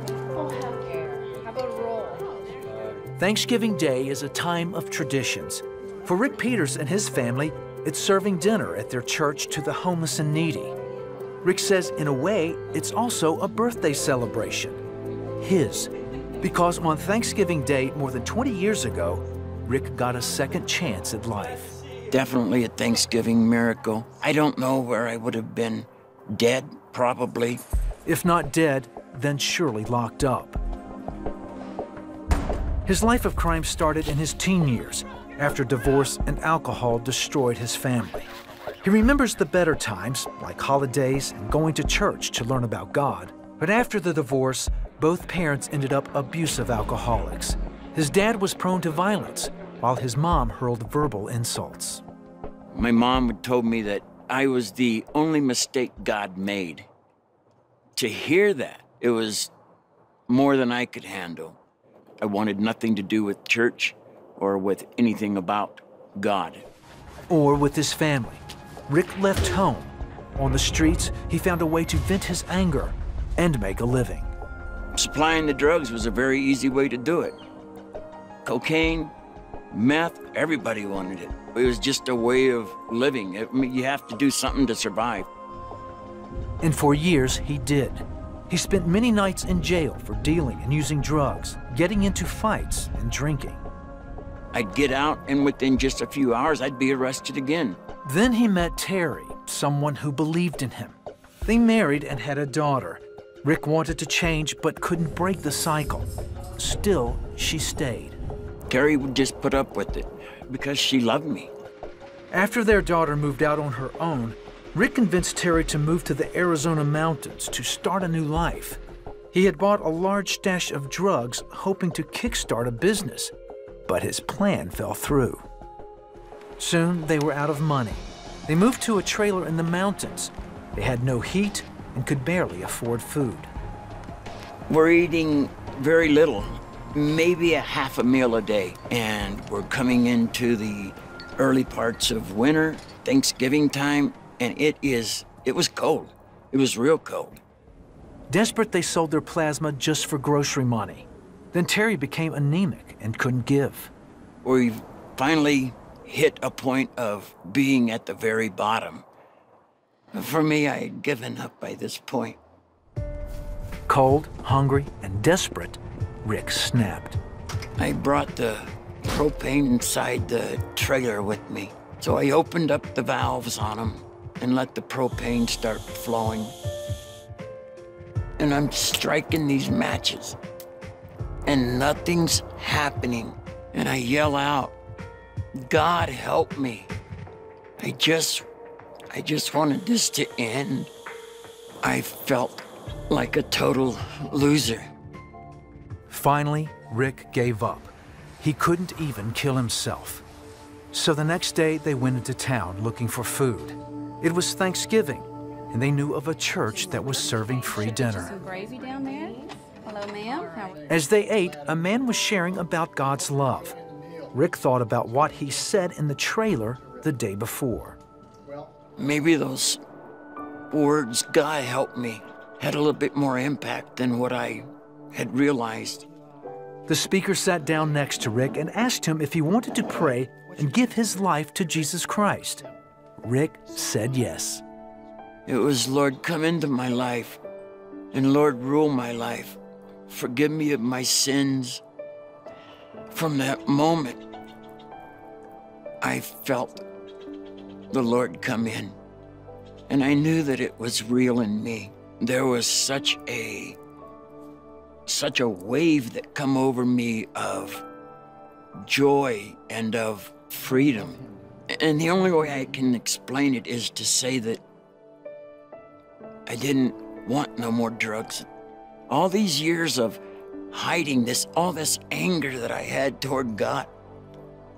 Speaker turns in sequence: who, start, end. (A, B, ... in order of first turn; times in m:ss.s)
0:01.4-0:02.2 A
0:03.2-0:10.7 B
0:11.4-0:14.8 B
0:15.4-0:21.8 B
0:22.1-0:27.6 C
0:28.0-0:30.6 B
0:32.8-0:38.3 B
0:38.8-0:52.0 B
0:52.7-0:56.9 C
0:58.0-0:59.5 C
1:00.3-1:01.6 C
1:02.2-1:06.6 C
1:07.3-1:14.3 B
1:15.0-1:17.4 C
1:18.4-1:19.1 C
1:19.7-1:25.3 C
1:26.6-1:33.6 B
1:34.5-1:37.8 C
1:38.0-1:48.2 B
1:48.7-1:51.5 C
1:52.3-1:58.8 B
1:59.3-2:03.3 B
2:03.9-2:05.4 B
2:06.6-2:13.5 B
2:14.7-2:27.4 C
2:28.3-2:33.9 B
2:34.4-2:39.0 C
2:40.1-2:42.4 C
2:43.9-2:47.2 B
2:47.8-2:56.5 C
2:58.4-3:00.4 C
3:01.4-3:04.8 C
3:05.6-3:06.9 C
3:07.8-3:08.4 C
3:09.1-3:10.9 C
3:11.8-3:14.9 C
3:16.1-3:20.2 B
3:20.9-3:28.4 B
3:26.7-3:30.9 A
3:30.9-3:33.8 B
3:34.3-3:38.0 B
3:38.9-3:39.8 C
3:40.7-3:46.0 C
3:46.9-3:52.7 B
3:53.2-3:54.6 B
3:55.4-3:57.4 C
3:58.1-4:01.8 C
4:03.1-4:04.2 C
4:06.0-4:06.8 C
4:07.9-4:09.0 C
4:09.9-4:13.8 C
4:15.1-4:17.8 C
4:18.9-4:24.6 C
4:26.5-4:28.5 C
4:29.1-4:33.9 C